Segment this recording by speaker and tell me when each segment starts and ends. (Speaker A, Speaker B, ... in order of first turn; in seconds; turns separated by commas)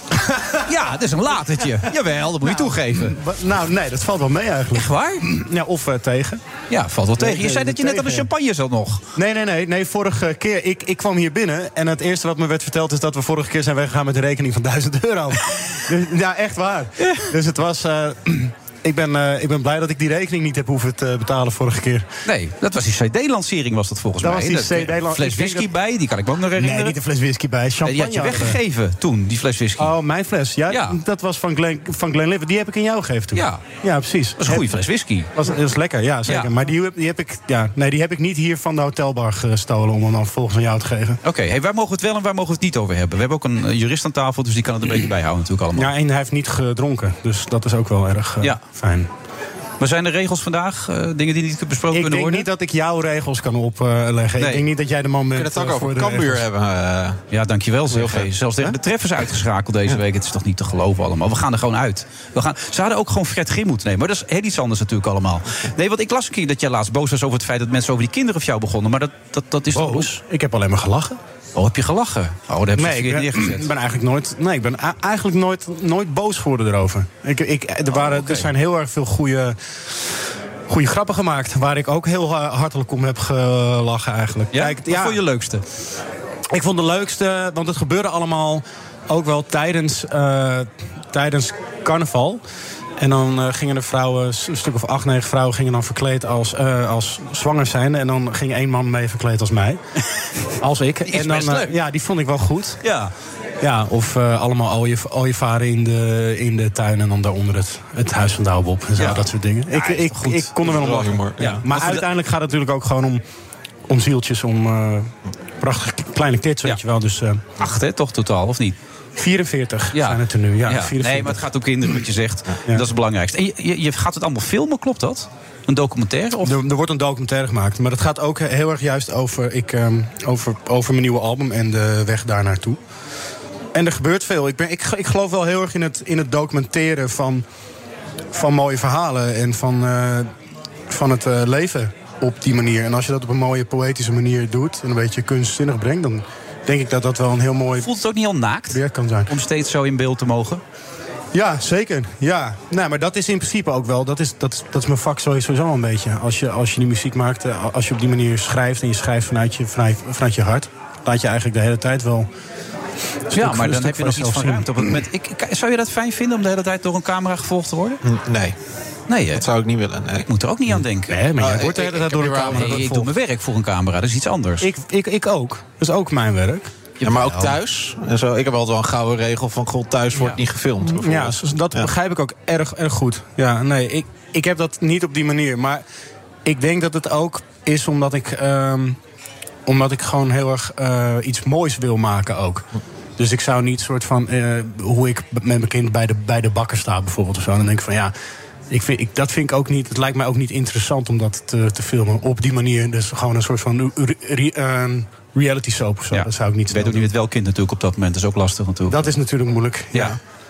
Speaker A: 0.3-0.6, Speaker B: 0.6-3.1, Speaker A: 2.4-6.4, Speaker B: 4.7-5.3, Speaker B: 6.7-9.0, Speaker A: 7.2-8.3, Speaker A: 9.2-22.1, Speaker B: 17.0-17.3, Speaker B: 22.2-27.0, Speaker A: 24.2-25.7, Speaker A: 26.6-28.6, Speaker B: 27.8-29.9, Speaker A: 29.8-34.7, Speaker B: 30.7-31.0, Speaker B: 33.3-33.6, Speaker B: 34.4-35.3, Speaker A: 35.4-41.2, Speaker B: 36.3-36.5, Speaker B: 41.2-45.9, Speaker A: 45.7-49.1, Speaker B: 49.8-52.5, Speaker A: 51.9-56.4, Speaker B: 54.4-54.6, Speaker C: 55.3-57.2, Speaker B: 57.3-70.2, Speaker C: 57.9-58.8, Speaker A: 69.7-71.2, Speaker B: 71.5-73.7, Speaker A: 72.8-79.9, Speaker B: 77.9-78.5, Speaker A: 80.7-85.2, Speaker B: 84.5-85.6, Speaker A: 86.5-92.4, Speaker A: 93.0-99.8, Speaker A: 100.6-102.8, Speaker B: 101.0-101.8, Speaker B: 102.8-103.1, Speaker A: 103.6-113.2, Speaker B: 109.0-110.5, Speaker C: 110.6-111.6, Speaker B: 111.4-112.1, Speaker A: 113.9-117.4, Speaker B: 117.6-118.7, Speaker A: 119.2-121.4, Speaker B: 119.9-126.6, Speaker A: 126.4-132.8, Speaker A: 133.7-137.4, Speaker A: 138.3-140.3, Speaker A: 140.9-147.9, Speaker B: 147.7-150.6, Speaker A: 148.7-149.3, Speaker A: 151.3-162.3, Speaker A: 163.3-165.0, Speaker B: 163.3-168.0, Speaker C: 168.0-168.6, Speaker B: 169.1-169.4, Speaker C: 169.3-170.3, Speaker B: 170.3-171.2, Speaker A: 171.1-173.1, Speaker C: 171.4-172.9, Speaker B: 172.4-174.7, Speaker A: 174.6-176.7, Speaker B: 177.0-177.6, Speaker C: 177.0-181.9, Speaker A: 180.8-185.8, Speaker A: 186.4-189.0, Speaker A: 189.7-192.7, Speaker A: 193.2-198.1, Speaker A: 198.7-207.1, Speaker B: 206.1-209.1, Speaker A: 208.9-210.2